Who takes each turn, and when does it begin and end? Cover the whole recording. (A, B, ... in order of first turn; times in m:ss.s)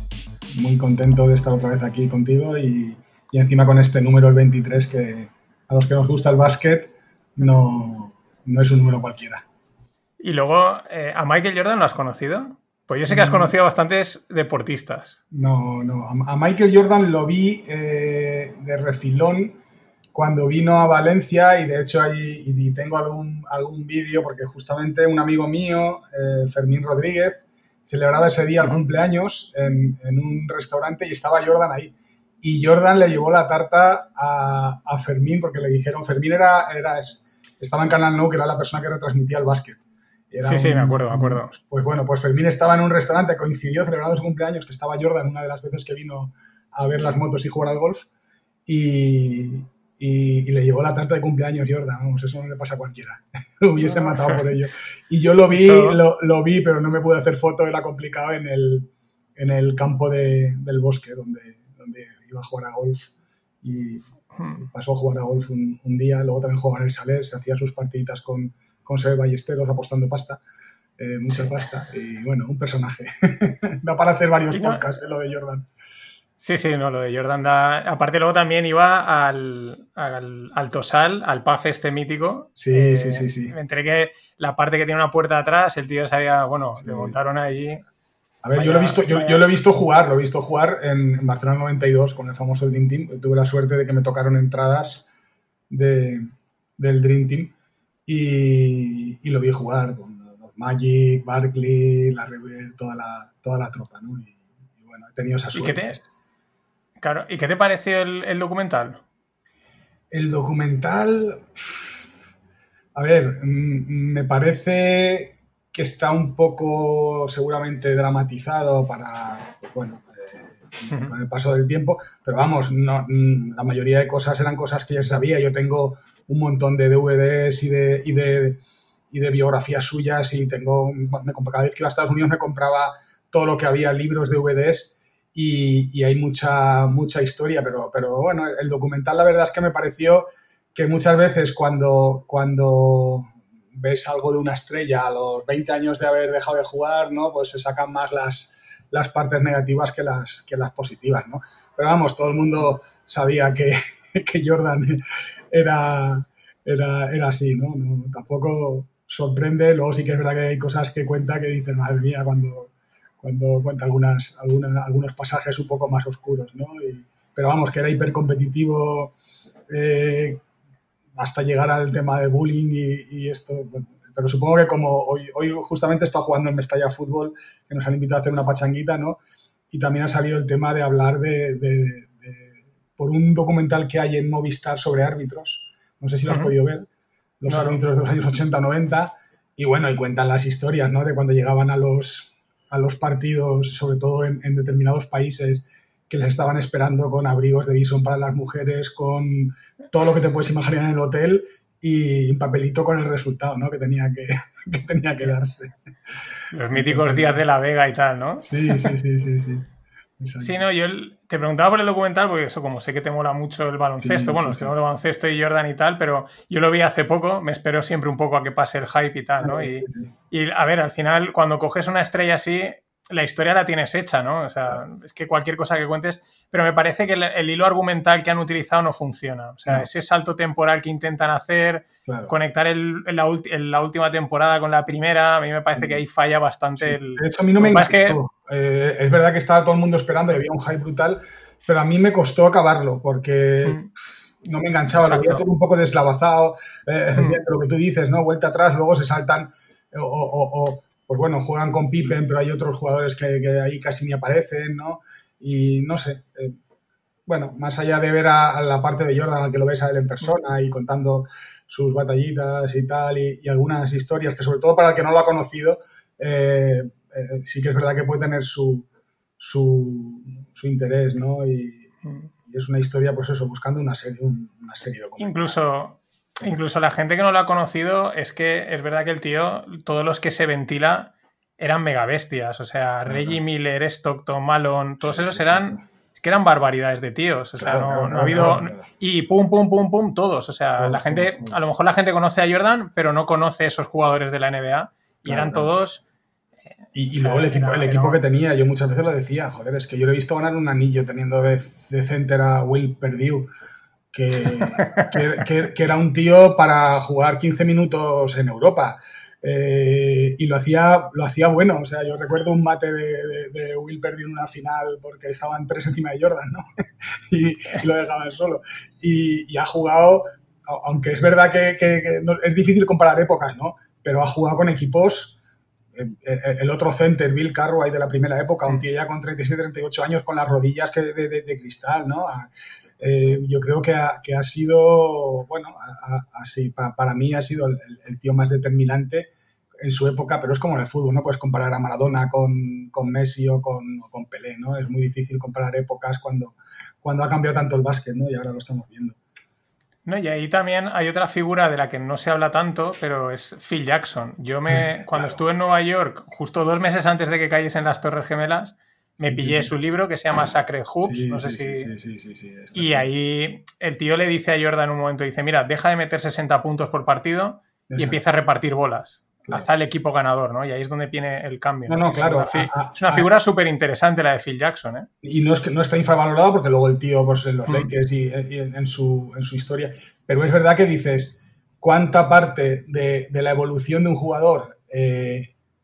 0:00.5-0:09.4 A
0:10.2-0:15.2 B
0:13.1-0:13.5 A
0:15.3-0:19.6 A
0:20.1-0:48.1 A
0:40.4-0:41.5 B
0:48.6-1:04.0 A
0:53.8-0:54.5 B
0:55.5-0:56.0 B
1:04.3-1:04.6 B
1:04.6-1:10.4 A
1:11.0-1:15.7 A
1:14.5-1:14.8 B
1:16.4-1:27.8 B
1:22.6-1:23.5 A
1:26.8-1:27.2 A
1:28.4-1:35.1 A
1:28.5-1:29.4 B
1:35.7-1:37.5 A
1:38.1-1:46.1 A
1:45.5-1:46.0 B
1:47.0-1:49.0 B
1:50.1-1:52.0 A
1:52.9-2:49.1 A
2:49.7-2:50.4 A
2:51.1-3:06.9 A
3:06.3-3:06.5 B
3:07.4-3:25.7 A
3:07.5-3:07.8 B
3:26.5-3:28.9 B
3:26.7-3:27.4 A
3:28.4-3:29.7 A
3:30.2-3:30.6 A
3:30.4-3:58.2 B
3:34.0-3:34.7 A
3:39.4-3:40.1 A
3:52.0-3:52.3 A
3:55.7-3:56.0 A
3:56.8-4:03.8 A
4:03.6-4:03.9 B
4:04.4-4:16.6 A
4:05.0-4:05.4 B
4:07.1-4:07.4 B
4:17.3-4:28.8 A
4:29.4-4:31.9 A
4:32.0-4:32.3 B
4:32.4-4:35.6 A
4:35.2-4:56.0 B
4:43.0-4:43.4 A
4:45.0-4:45.8 A
4:47.6-4:48.9 A
4:50.8-4:51.7 A
4:55.2-4:55.7 A
4:56.9-5:03.5 A
4:57.1-4:58.2 B
5:04.1-5:25.4 A
5:04.5-5:05.2 B
5:25.9-5:49.2 A
5:50.0-6:01.9 B
5:54.7-5:55.4 A
5:59.2-5:59.7 A
6:01.0-6:03.0 A
6:02.7-6:15.1 B
6:07.9-6:08.2 A
6:11.9-6:13.3 A
6:15.2-6:25.5 A
6:17.7-6:17.9 B